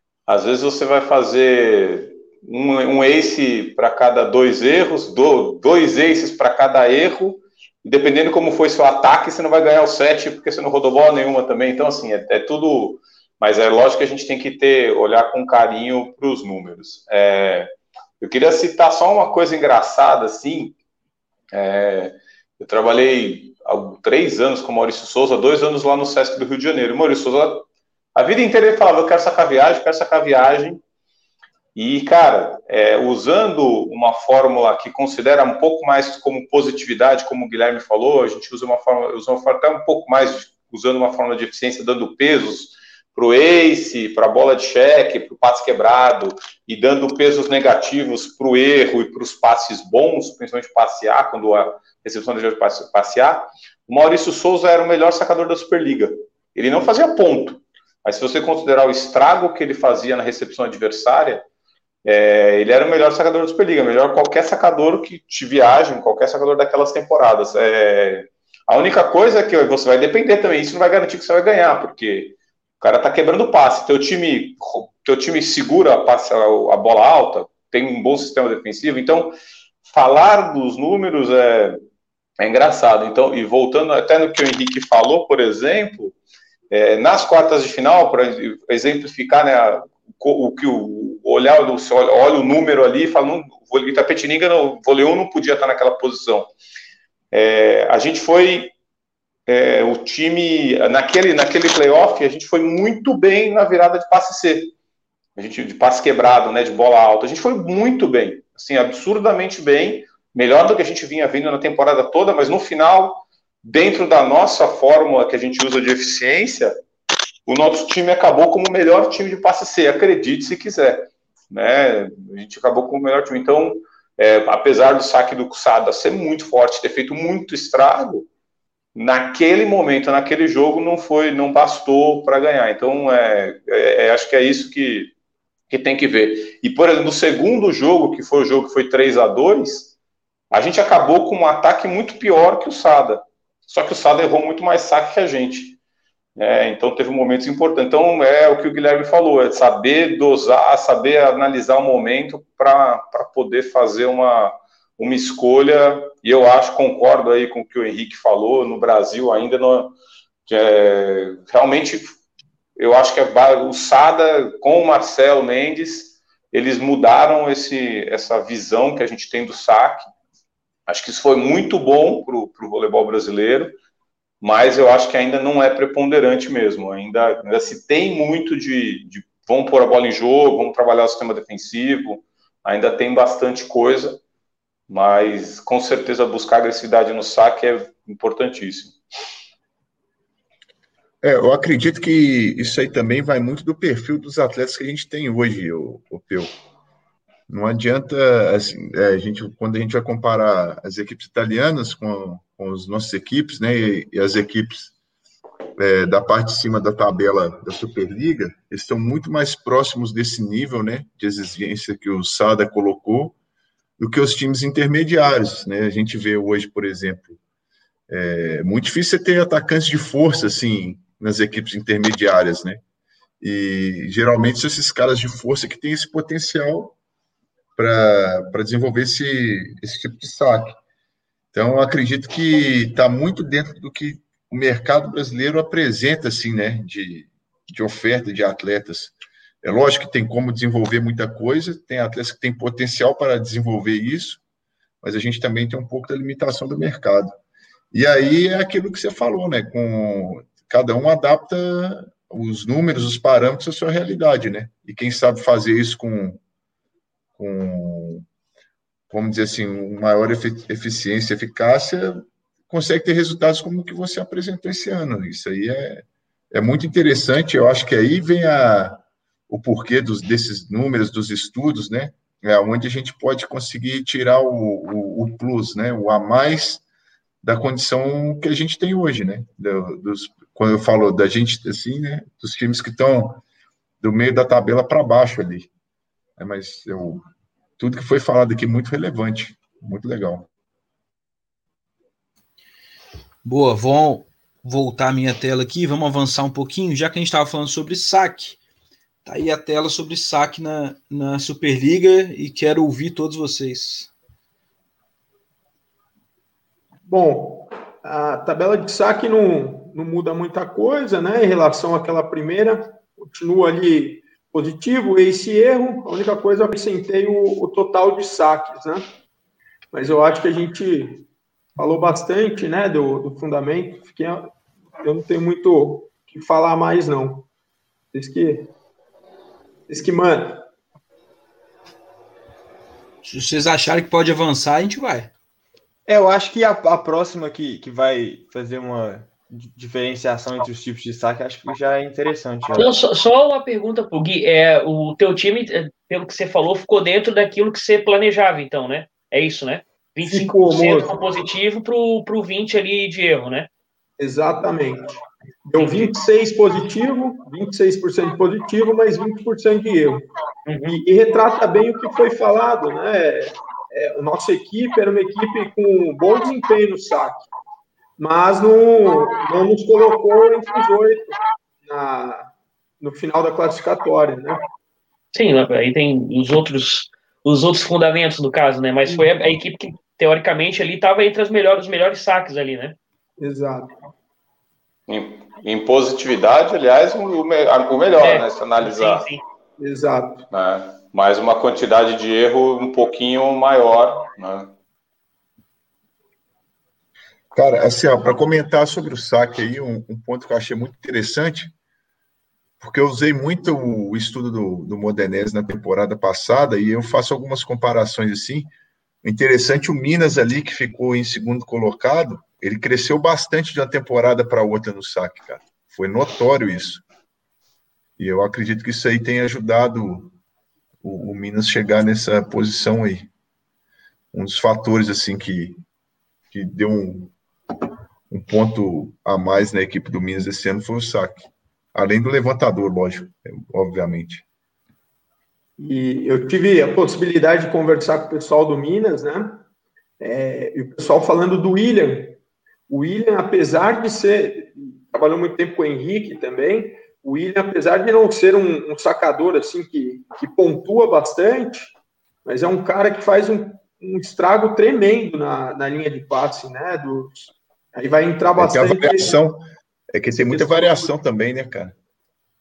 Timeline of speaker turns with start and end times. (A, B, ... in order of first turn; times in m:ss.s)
0:00.3-0:20.7 A
0:21.5-0:30.8 A
0:31.8-1:01.4 A
1:02.0-1:19.3 A
1:19.9-1:21.8 A
1:22.4-1:26.1 A
1:26.7-1:36.5 A
1:37.3-1:38.7 A
1:39.5-1:44.7 A
1:45.4-1:56.7 A
1:57.5-2:08.3 A
2:08.9-2:15.1 A
2:15.7-2:19.9 A
2:20.5-2:25.8 A
2:26.4-2:39.9 A
2:40.5-2:42.1 A
2:42.8-2:50.1 A
2:50.9-2:53.7 A
2:54.4-3:04.2 A
3:04.9-3:09.0 A
3:11.2-3:16.5 B
3:17.5-3:24.9 B
3:25.8-3:33.4 B
3:34.0-3:37.4 B
3:38.1-3:42.8 B
3:43.4-3:47.0 B
3:47.8-3:50.8 B
3:51.5-4:04.4 B
4:05.0-4:07.4 B
4:07.9-4:16.4 B
4:17.4-4:18.2 B
4:19.1-4:36.8 B
4:37.4-4:43.4 B
4:44.0-4:45.7 B
4:46.4-4:47.2 B
4:47.8-4:50.5 B
4:53.4-4:58.6 C
4:59.2-5:04.1 C
5:07.1-5:19.0 D
5:19.9-5:27.5 D
5:28.1-5:28.7 D
5:29.9-5:30.6 D
5:33.2-5:35.3 C
5:36.1-5:42.9 E
5:42.7-5:53.7 F
5:50.2-5:51.2 D
5:54.2-6:00.3 D
5:55.8-5:56.1 F
6:00.6-6:01.0 F
6:00.9-6:07.5 D
6:08.2-6:14.6 D
6:15.3-6:23.0 F
6:23.4-6:24.0 D
6:25.1-6:29.2 A
6:28.2-6:29.4 F
6:29.8-6:30.4 D
6:30.5-6:34.7 A
6:37.5-6:41.7 B
6:42.8-6:48.7 B
6:49.2-6:57.0 B
6:58.2-7:00.3 B
7:01.0-7:03.3 B
7:04.3-7:05.8 B
7:06.5-7:07.3 B
7:08.3-7:14.4 B
7:15.8-7:19.6 D
7:20.2-7:31.9 D
7:32.4-7:39.4 D
7:38.6-7:42.0 B
7:40.3-7:41.1 D